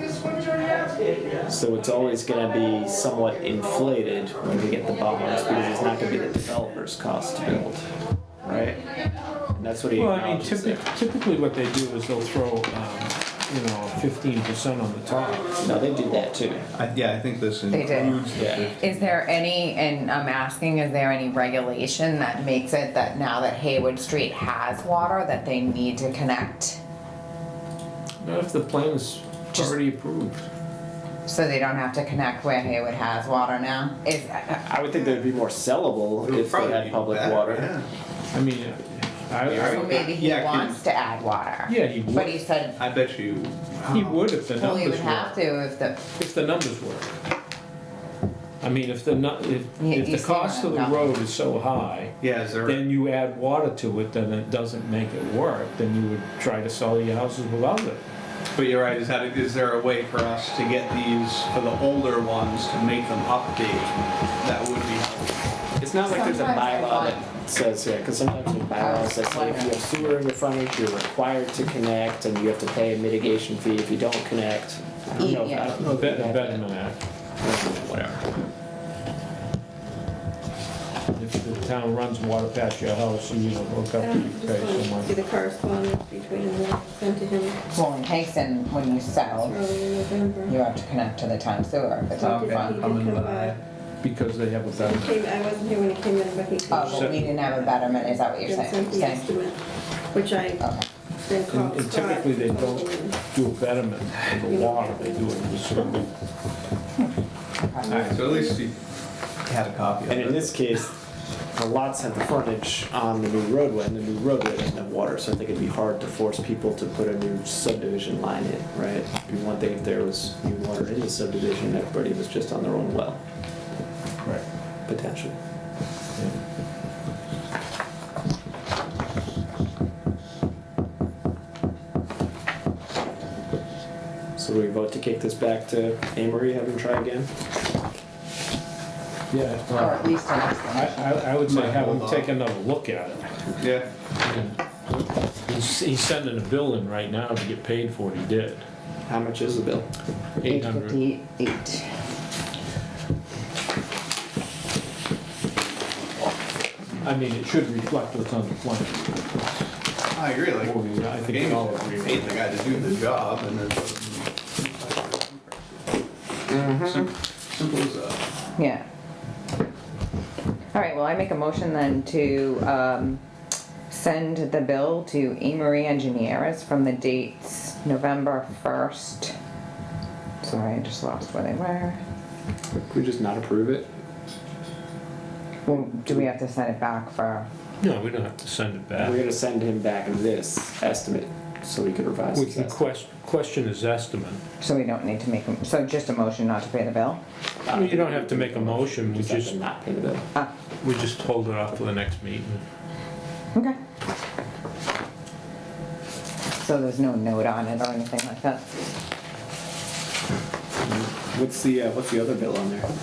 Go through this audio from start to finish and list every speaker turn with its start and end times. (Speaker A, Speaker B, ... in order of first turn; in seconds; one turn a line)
Speaker A: 1.5-7.8
Speaker A: 8.4-8.8
Speaker A: 9.5-10.9
Speaker B: 9.9-15.5
Speaker A: 15.6-16.7
Speaker C: 16.8-19.1
Speaker D: 17.7-26.8
Speaker A: 18.4-18.7
Speaker B: 28.2-30.5
Speaker D: 31.3-34.6
Speaker A: 34.6-37.7
Speaker C: 36.2-37.9
Speaker B: 38.3-40.0
Speaker C: 39.4-40.8
Speaker D: 39.6-42.8
Speaker B: 41.7-42.4
Speaker C: 42.8-44.3
Speaker B: 43.9-45.4
Speaker D: 44.6-46.0
Speaker B: 46.1-47.1
Speaker B: 48.6-58.0
Speaker D: 49.8-51.1
Speaker C: 52.2-52.8
Speaker C: 58.5-65.3
Speaker A: 65.8-76.6
Speaker D: 66.0-67.2
Speaker D: 68.8-69.9
Speaker D: 75.2-75.8
Speaker B: 75.8-77.0
Speaker A: 77.4-78.3
Speaker B: 81.1-85.1
Speaker E: 83.9-87.6
Speaker D: 87.7-89.6
Speaker E: 89.3-90.6
Speaker D: 90.5-93.0
Speaker E: 92.1-93.6
Speaker C: 92.2-93.6
Speaker B: 94.0-95.2
Speaker E: 94.7-99.6
Speaker D: 96.7-99.3
Speaker B: 96.7-97.3
Speaker E: 100.1-100.7
Speaker D: 100.6-100.9
Speaker E: 101.2-103.2
Speaker B: 101.5-106.1
Speaker E: 104.3-106.0
Speaker E: 107.8-108.6
Speaker C: 108.1-108.8
Speaker C: 109.4-110.5
Speaker A: 110.1-111.0
Speaker A: 111.5-123.2
Speaker A: 124.9-125.4
Speaker A: 134.4-137.3
Speaker B: 139.3-143.3
Speaker D: 139.7-141.2
Speaker C: 141.4-142.3
Speaker C: 143.6-143.9
Speaker B: 144.2-148.7
Speaker A: 149.1-149.9
Speaker B: 150.4-151.0
Speaker D: 150.4-151.9
Speaker B: 157.0-159.7
Speaker C: 160.1-165.5
Speaker B: 160.6-162.9
Speaker C: 166.5-168.3
Speaker D: 168.6-168.8
Speaker D: 170.7-173.2
Speaker D: 173.9-179.3
Speaker D: 180.4-182.0
Speaker A: 182.9-183.9
Speaker D: 185.7-187.5
Speaker B: 187.8-189.2
Speaker A: 189.0-192.8
Speaker B: 192.3-194.4
Speaker D: 194.6-197.2
Speaker A: 197.7-200.3
Speaker B: 197.7-199.6
Speaker B: 200.8-202.6
Speaker D: 206.6-208.6
Speaker A: 210.8-212.9